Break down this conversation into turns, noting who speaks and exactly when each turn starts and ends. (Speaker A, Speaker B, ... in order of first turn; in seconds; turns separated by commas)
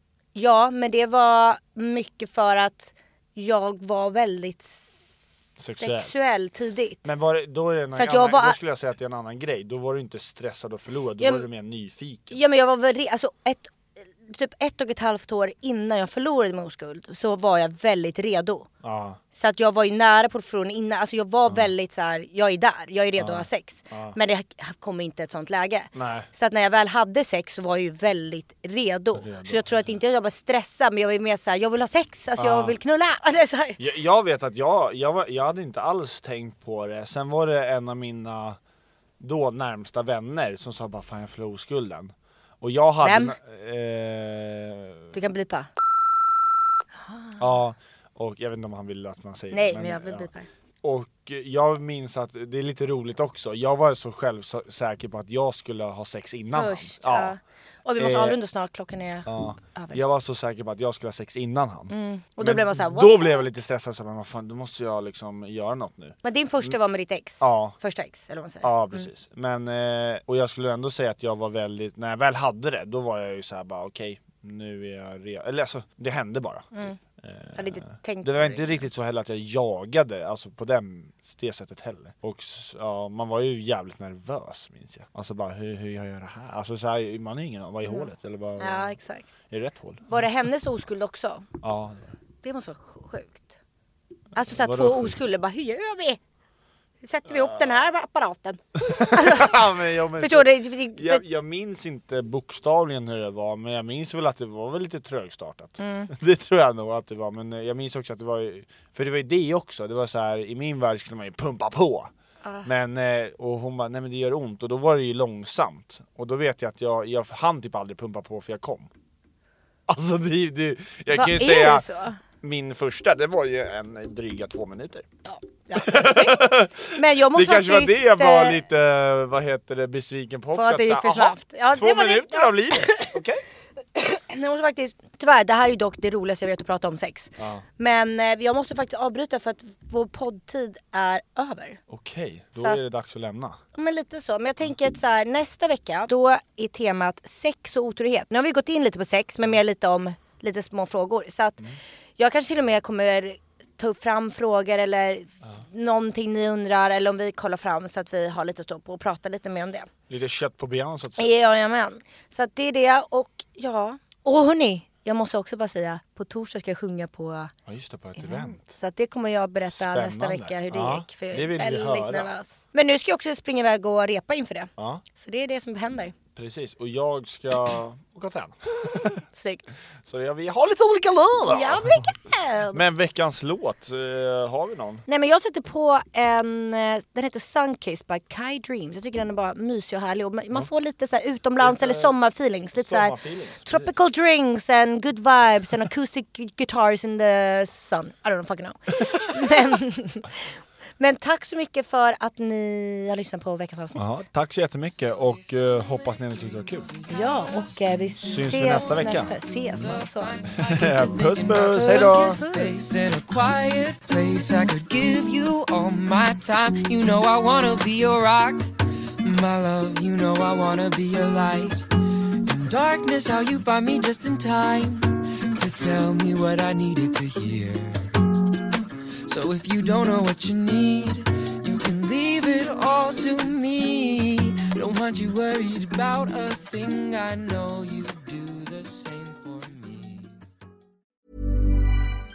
Speaker A: 0.3-7.1, Speaker B: 5.6-6.1, Speaker B: 7.0-12.4, Speaker A: 7.9-8.6, Speaker A: 11.2-11.4, Speaker A: 12.3-18.7, Speaker B: 18.8-19.2, Speaker A: 19.4-33.8, Speaker B: 23.2-24.2, Speaker B: 25.9-26.3, Speaker B: 29.2-29.9, Speaker B: 32.4-32.8, Speaker B: 33.8-38.6, Speaker B: 39.2-45.1, Speaker A: 43.0-43.4, Speaker A: 45.1-45.7, Speaker A: 47.0-47.4, Speaker B: 47.4-50.3, Speaker A: 49.5-50.5, Speaker B: 50.8-57.4, Speaker A: 56.5-60.0, Speaker B: 58.0-58.4, Speaker B: 59.3-66.8, Speaker A: 61.9-63.4, Speaker A: 66.2-69.1, Speaker B: 67.4-67.8, Speaker B: 68.6-90.2, Speaker A: 76.7-77.0, Speaker A: 77.5-78.8, Speaker A: 87.9-89.3, Speaker A: 90.1-91.5, Speaker B: 91.6-92.1, Speaker A: 92.4-93.6, Speaker A: 94.3-96.2, Speaker B: 94.4-95.2, Speaker A: 97.0-99.6, Speaker B: 97.3-97.5, Speaker B: 98.8-112.1, Speaker A: 100.2-101.2, Speaker A: 105.8-106.1, Speaker A: 112.4-112.7, Speaker B: 112.6-118.9, Speaker B: 119.9-125.1, Speaker A: 121.1-122.2, Speaker A: 125.3-128.6, Speaker B: 125.8-133.4, Speaker A: 130.5-133.2, Speaker A: 133.9-141.8, Speaker B: 137.4-137.6, Speaker B: 141.9-143.6, Speaker A: 143.7-151.6, Speaker A: 152.2-159.9, Speaker B: 160.1-161.3, Speaker A: 161.2-167.5, Speaker B: 167.7-168.7, Speaker A: 168.2-176.1, Speaker B: 169.7-172.3, Speaker B: 174.8-175.0, Speaker B: 176.4-179.2, Speaker A: 179.3-179.7, Speaker B: 180.1-182.1, Speaker A: 181.5-182.8, Speaker B: 182.7-185.1, Speaker A: 185.1-200.4, Speaker B: 191.6-192.1, Speaker B: 192.7-193.9, Speaker B: 199.1-199.5, Speaker A: 201.0-204.1, Speaker B: 203.9-206.9, Speaker C: 205.2-218.7, Speaker A: 207.1-212.7, Speaker B: 208.2-209.3, Speaker B: 210.6-212.4, Speaker C: 219.2-221.8, Speaker C: 222.4-228.3, Speaker C: 229.3-240.3